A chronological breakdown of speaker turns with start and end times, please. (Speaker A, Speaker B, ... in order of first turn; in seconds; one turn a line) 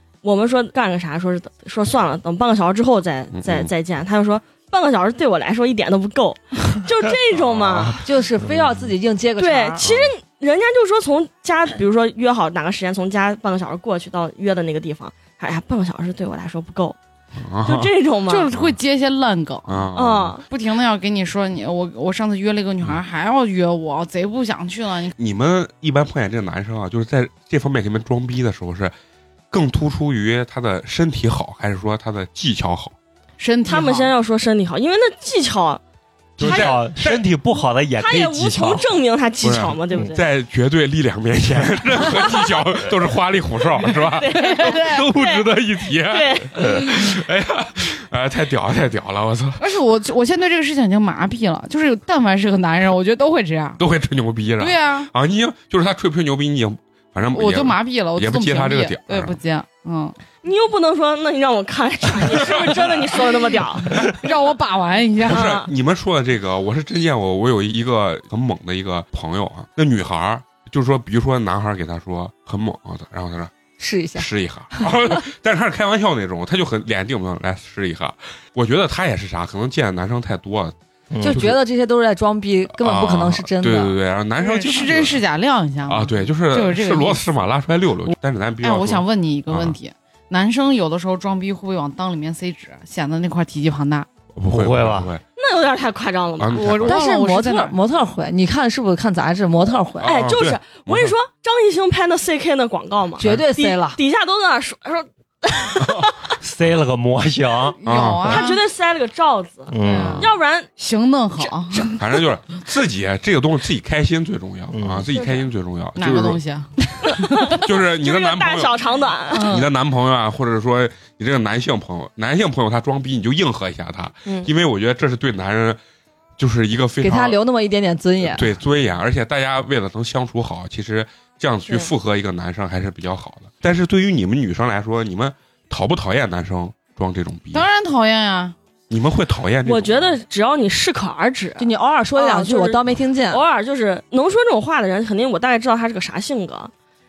Speaker A: 0.2-8.0
Speaker B: 3.3-3.7
Speaker B: 7.3-8.0
Speaker C: 8.0-9.9
Speaker A: 9.4-17.0
Speaker B: 17.4-17.9
Speaker A: 17.6-18.5
Speaker D: 18.3-19.9
Speaker B: 19.7-20.4
Speaker A: 19.9-20.4
Speaker D: 20.5-25.1
Speaker B: 25.1-28.9
Speaker B: 29.5-32.9
Speaker D: 33.4-34.1
Speaker A: 33.6-35.8
Speaker B: 36.4-37.2
Speaker E: 36.4-38.9
Speaker A: 36.4-36.8
Speaker A: 38.0-40.2
Speaker B: 39.4-49.7
Speaker A: 44.2-45.5
Speaker D: 44.6-45.0
Speaker A: 46.1-46.8
Speaker D: 49.6-53.8
Speaker B: 53.8-59.4
Speaker D: 54.6-55.1
Speaker D: 57.3-60.1
Speaker A: 60.4-63.9
Speaker B: 62.3-62.9
Speaker D: 64.0-65.6
Speaker B: 65.3-73.5
Speaker A: 65.3-65.7
Speaker C: 73.8-74.3
Speaker B: 74.1-80.7
Speaker E: 81.1-81.4
Speaker C: 81.2-83.9
Speaker B: 81.3-81.6
Speaker B: 82.7-85.2
Speaker D: 84.4-87.2
Speaker B: 85.8-89.8
Speaker D: 88.6-94.1
Speaker B: 94.3-95.2
Speaker E: 94.5-95.1
Speaker A: 95.4-96.9
Speaker B: 96.4-97.0
Speaker D: 96.5-97.8
Speaker C: 96.9-100.1
Speaker B: 100.0-101.1
Speaker A: 100.0-106.2
Speaker C: 103.2-104.0
Speaker E: 106.4-108.4
Speaker D: 107.8-108.6
Speaker B: 107.8-108.3
Speaker A: 108.3-110.7
Speaker E: 109.7-110.3
Speaker D: 109.8-112.0
Speaker B: 109.8-110.1
Speaker B: 112.0-116.4
Speaker E: 114.7-115.1
Speaker A: 115.1-115.5
Speaker D: 116.0-117.6
Speaker A: 117.0-119.6
Speaker B: 117.6-118.8
Speaker D: 119.3-119.7
Speaker B: 119.3-125.8
Speaker B: 126.4-127.4
Speaker C: 127.0-128.6
Speaker B: 128.3-137.7
Speaker D: 137.5-138.5
Speaker B: 138.9-140.1
Speaker A: 139.6-146.7
Speaker C: 141.6-143.4